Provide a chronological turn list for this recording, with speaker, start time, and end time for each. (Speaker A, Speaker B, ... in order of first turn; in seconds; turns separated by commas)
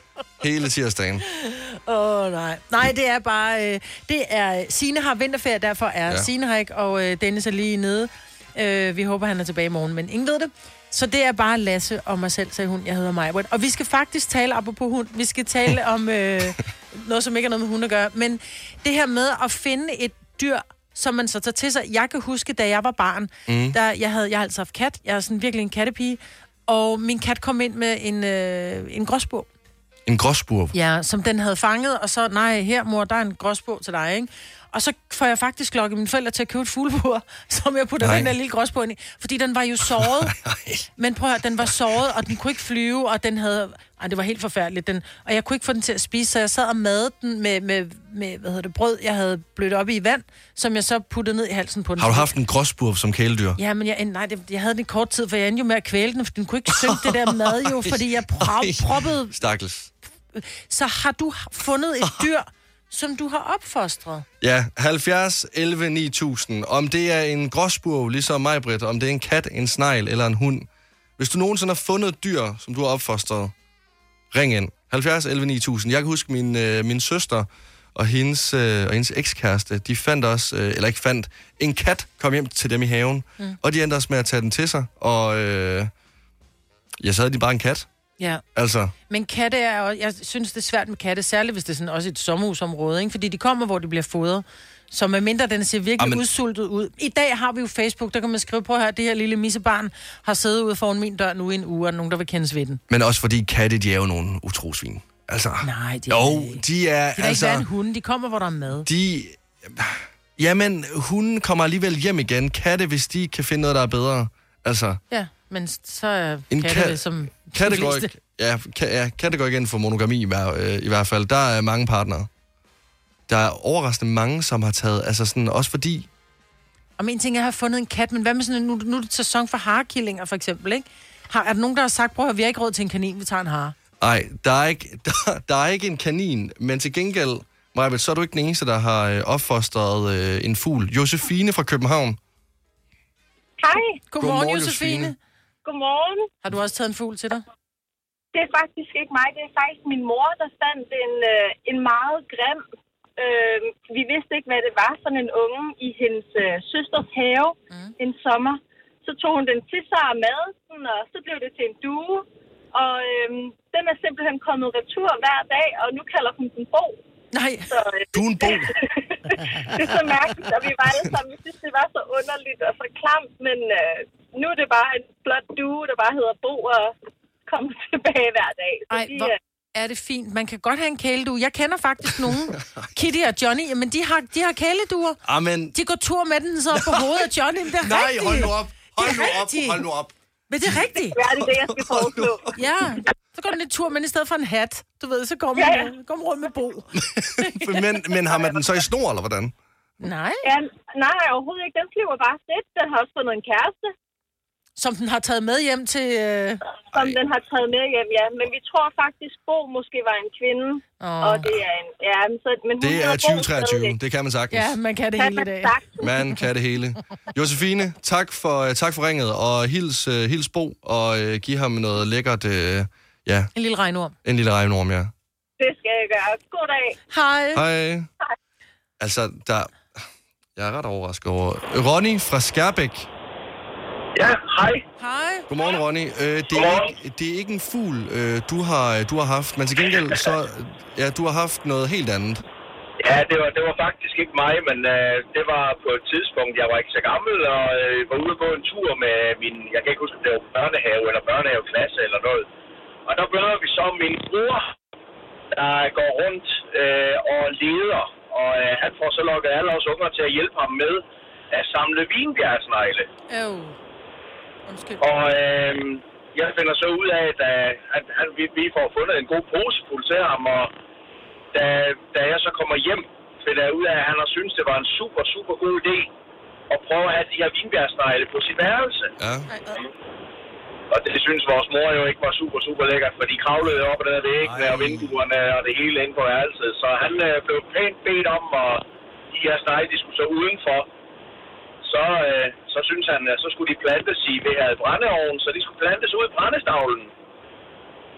Speaker A: 0.4-1.2, Speaker B: 1.3-29.5, Speaker A: 23.5-23.8, Speaker A: 30.1-30.7, Speaker B: 30.7-40.3, Speaker A: 38.0-38.3, Speaker A: 39.9-40.9, Speaker B: 41.0-52.3, Speaker A: 52.0-53.6, Speaker B: 53.6-59.3, Speaker A: 56.7-59.9, Speaker B: 60.3-64.2, Speaker A: 64.4-70.7, Speaker A: 71.2-73.5, Speaker A: 74.3-85.9, Speaker A: 87.0-87.9, Speaker A: 88.5-88.9, Speaker B: 89.1-102.8, Speaker A: 102.9-107.7, Speaker B: 105.6-106.6, Speaker B: 107.2-108.8, Speaker A: 108.8-115.0, Speaker B: 115.1-118.1, Speaker A: 116.5-122.3, Speaker A: 123.3-126.1, Speaker B: 127.0-133.7, Speaker A: 134.0-142.2, Speaker C: 143.6-144.0, Speaker B: 144.1-145.2, Speaker A: 144.2-145.1, Speaker C: 145.6-146.3, Speaker B: 146.4-147.4, Speaker C: 148.3-152.6, Speaker C: 153.2-167.0, Speaker B: 167.3-167.7, Speaker C: 167.7-176.9, Speaker A: 168.1-168.7, Speaker B: 169.4-169.9, Speaker A: 170.8-171.2, Speaker C: 177.5-179.4, Speaker B: 178.9-185.2, Speaker A: 182.3-182.8, Speaker A: 185.2-185.7, Speaker B: 185.7-189.8, Speaker A: 186.7-187.2, Speaker A: 187.8-192.5, Speaker B: 190.5-191.2, Speaker C: 191.1-192.5, Speaker B: 192.5-197.8, Speaker C: 195.6-195.9, Speaker A: 196.9-199.5, Speaker B: 200.0-200.4, Speaker C: 200.4-203.9, Speaker B: 204.8-206.6, Speaker A: 206.9-207.2, Speaker C: 206.9-213.9, Speaker B: 211.0-211.5, Speaker A: 212.8-214.8, Speaker B: 214.5-215.8, Speaker C: 215.2-216.2, Speaker A: 216.0-223.5, Speaker B: 223.5-224.1, Speaker A: 224.2-225.1, Speaker C: 225.6-226.9, Speaker B: 227.1-227.6, Speaker A: 227.5-228.1, Speaker A: 229.0-230.0, Speaker A: 230.6-233.1, Speaker D: 234.2-234.8, Speaker B: 235.0-235.5, Speaker A: 235.5-242.4, Speaker D: 236.5-236.9, Speaker D: 243.0-252.4, Speaker D: 253.1-254.7, Speaker D: 255.5-263.1, Speaker B: 263.3-263.8, Speaker B: 264.7-265.0, Speaker D: 265.0-270.7, Speaker D: 271.5-276.1, Speaker D: 276.7-279.1, Speaker A: 279.2-279.5, Speaker B: 279.5-279.8, Speaker D: 280.9-290.9, Speaker A: 284.4-285.1, Speaker D: 291.8-297.1